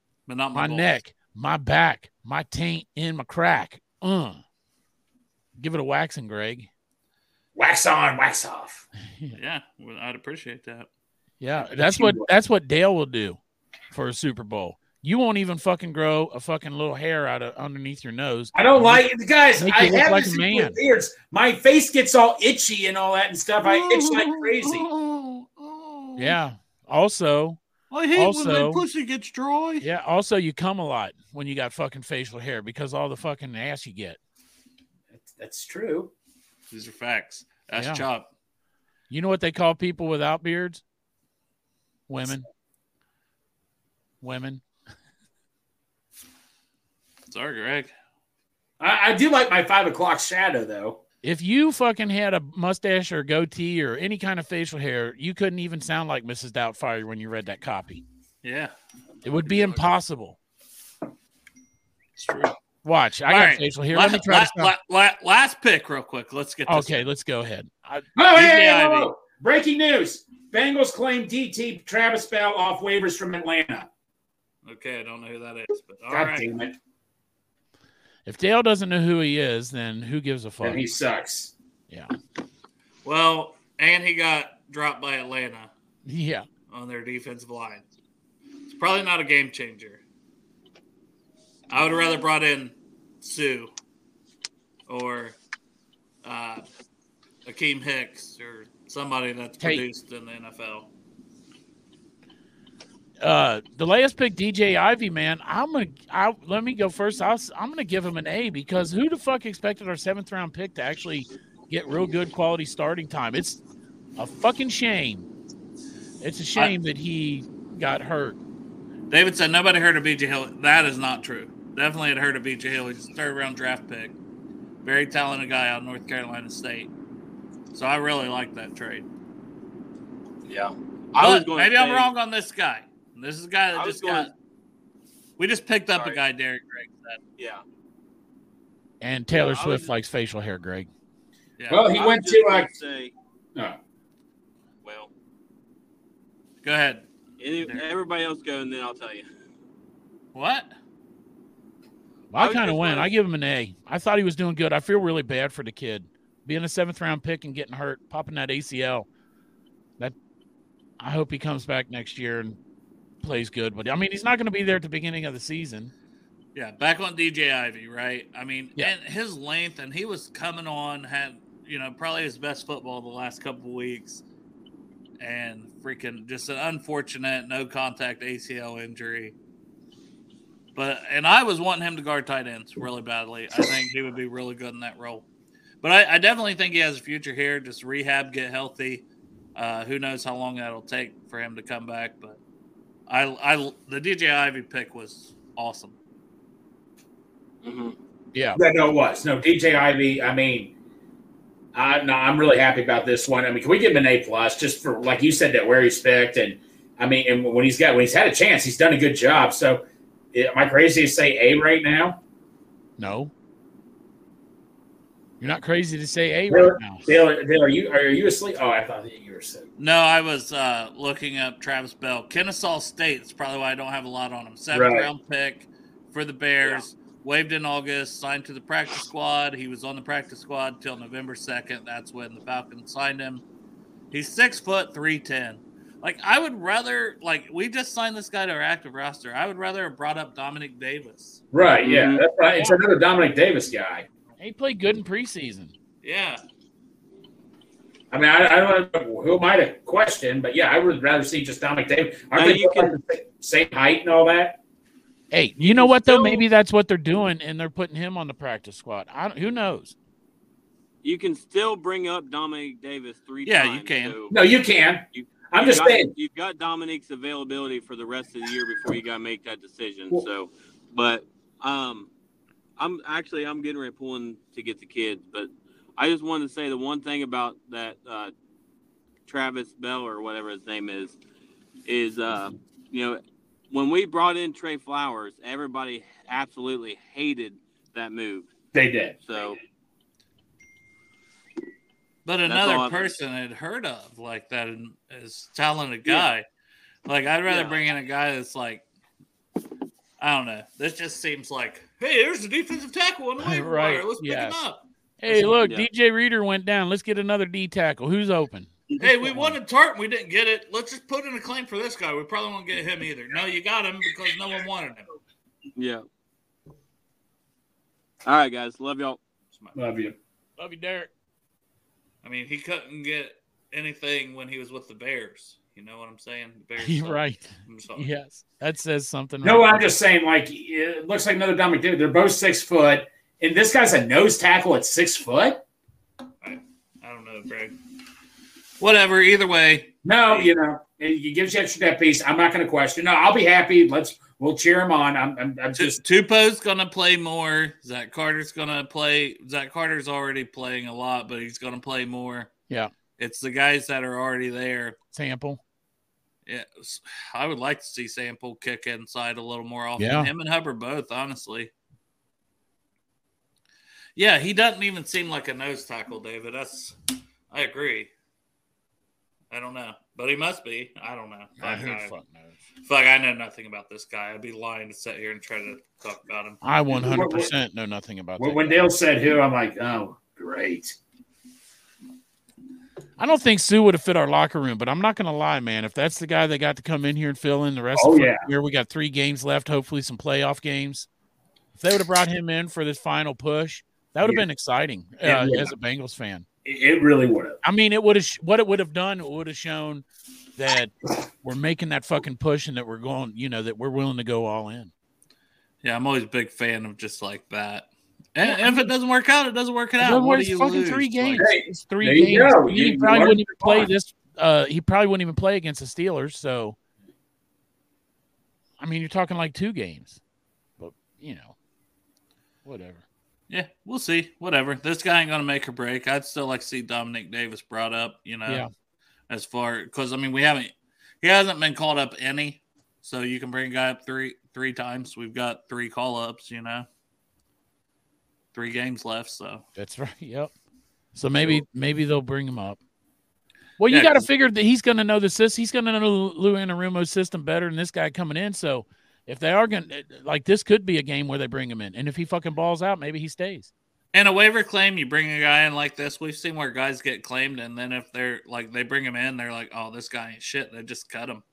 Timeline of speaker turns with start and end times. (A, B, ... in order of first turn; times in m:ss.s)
0:00.3-0:01.0 A
0:00.5-0:04.4 B
0:05.6-0:06.7 B
0:07.6-0:08.8 C
0:09.3-0:10.9 A
0:11.4-0:13.4 B
0:11.6-0:12.3 C
0:13.9-0:19.0 B
0:18.5-0:24.8 C
0:19.6-0:20.8 B
0:23.6-0:26.4 A
0:26.2-0:27.6 B
0:27.9-0:29.9 A
0:28.1-0:28.8 B
0:29.8-0:34.2 B
0:35.2-0:36.1 C
0:36.7-0:38.3 A
0:37.8-0:38.0 B
0:39.1-0:40.8 B
0:42.1-0:42.5 B
0:44.2-0:44.6 B
0:47.3-0:47.9 A
0:48.8-0:51.0 C
0:51.2-0:58.0 B
0:58.4-0:58.7 A
0:59.2-1:00.4 B
0:59.4-0:59.8 A
1:02.2-1:02.6 A
1:02.8-1:04.7 B
1:03.3-1:07.1 A
1:06.7-1:08.1 B
1:08.2-1:13.9 C
1:08.3-1:09.1 A
1:14.6-1:16.5 A
1:16.1-1:16.8 C
1:18.3-1:20.9 B
1:20.6-1:21.5 C
1:23.0-1:25.7 A
1:26.1-1:26.5 B
1:26.7-1:27.9 A
1:28.7-1:30.0 A
1:31.7-1:33.7 A
1:34.9-1:35.4 A
1:36.2-1:36.6 A
1:37.5-1:40.9 A
1:39.6-1:39.9 B
1:43.2-1:53.6 B
1:54.2-1:55.3 B
1:56.2-1:58.4 B
1:59.1-2:04.1 A
2:04.8-2:06.9 A
2:07.7-2:09.1 A
2:10.5-2:12.1 D
2:11.2-2:14.3 A
2:13.8-2:14.3 D
2:15.4-2:17.2 A
2:19.0-2:20.9 B
2:19.3-2:19.9 D
2:21.6-2:21.9 A
2:21.7-2:22.7 C
2:21.9-2:23.1 D
2:24.8-2:25.1 D
2:26.6-2:27.1 A
2:27.4-2:29.3 D
2:27.6-2:27.9 A
2:30.3-2:30.7 A
2:32.3-2:39.1 B
2:32.3-2:33.1 D
2:41.0-2:42.6 B
2:43.2-2:45.9 B
2:46.6-2:54.2 A
2:55.2-2:59.3 A
3:00.8-3:05.2 A
3:05.8-3:12.4 A
3:13.1-3:16.0 A
3:17.6-3:18.0 D
3:18.3-3:18.6 B
3:18.6-3:20.7 C
3:21.8-3:32.2 C
3:33.0-3:33.3 B
3:35.4-3:37.1 B
3:36.5-3:39.7 C
3:39.8-3:53.4 A
3:44.7-3:45.1 C
3:54.1-4:01.4 A
4:01.5-4:04.1 C
4:01.8-4:02.2 D
4:04.4-4:05.7 B
4:06.0-4:06.4 A
4:08.1-4:14.6 C
4:12.3-4:13.0 D
4:15.3-4:20.0 B
4:15.6-4:16.4 D
4:21.0-4:24.3 D
4:23.4-4:24.2 A
4:24.3-4:26.1 C
4:25.1-4:32.1 D
4:32.8-4:38.3 D
4:39.3-4:41.2 D
4:41.9-4:48.5 D
4:48.8-4:49.2 C
4:49.2-4:49.6 D
4:52.2-4:56.4 A
4:52.5-4:53.1 D
4:57.1-4:58.8 A
4:57.5-4:57.8 D
5:00.2-5:05.5 A
5:03.4-5:04.6 B
5:05.2-5:09.6 B
5:05.5-5:05.9 D
5:09.0-5:15.1 A
5:15.8-5:16.0 D
5:18.2-5:19.2 D
5:19.8-5:20.2 C
5:20.6-5:21.1 B
5:22.2-5:28.1 A
5:26.8-5:29.9 B
5:29.4-5:35.6 C
5:36.4-5:37.8 A
5:38.8-5:40.5 A
5:40.0-5:46.0 C
5:45.8-5:52.5 A
5:53.2-5:55.0 A
5:55.1-5:55.6 B
5:56.5-6:01.7 A
6:00.0-6:00.3 B
6:04.2-6:07.0 A
6:07.5-6:08.1 A
6:09.5-6:12.1 A
6:11.6-6:12.5 B
6:12.8-6:16.6 A
6:16.6-6:18.9 B
6:16.9-6:17.5 C
6:18.4-6:21.0 C
6:23.2-6:31.1 B
6:28.0-6:28.5 C
6:31.8-6:36.5 B
6:35.2-6:35.7 C
6:36.6-6:37.6 C
6:37.6-6:40.0 B
6:40.6-6:44.9 B
6:45.8-6:51.5 A
6:48.4-6:48.8 B
6:50.0-6:56.8 B
6:51.4-6:53.9 C
6:58.8-7:00.2 B
7:00.8-7:01.6 B
7:02.6-7:03.0 B
7:03.5-7:08.6 A
7:09.3-7:16.9 A
7:18.5-7:19.6 A
7:19.8-7:20.5 B
7:21.1-7:22.8 B
7:23.8-7:33.7 B
7:23.9-7:24.3 A
7:34.1-7:41.4 A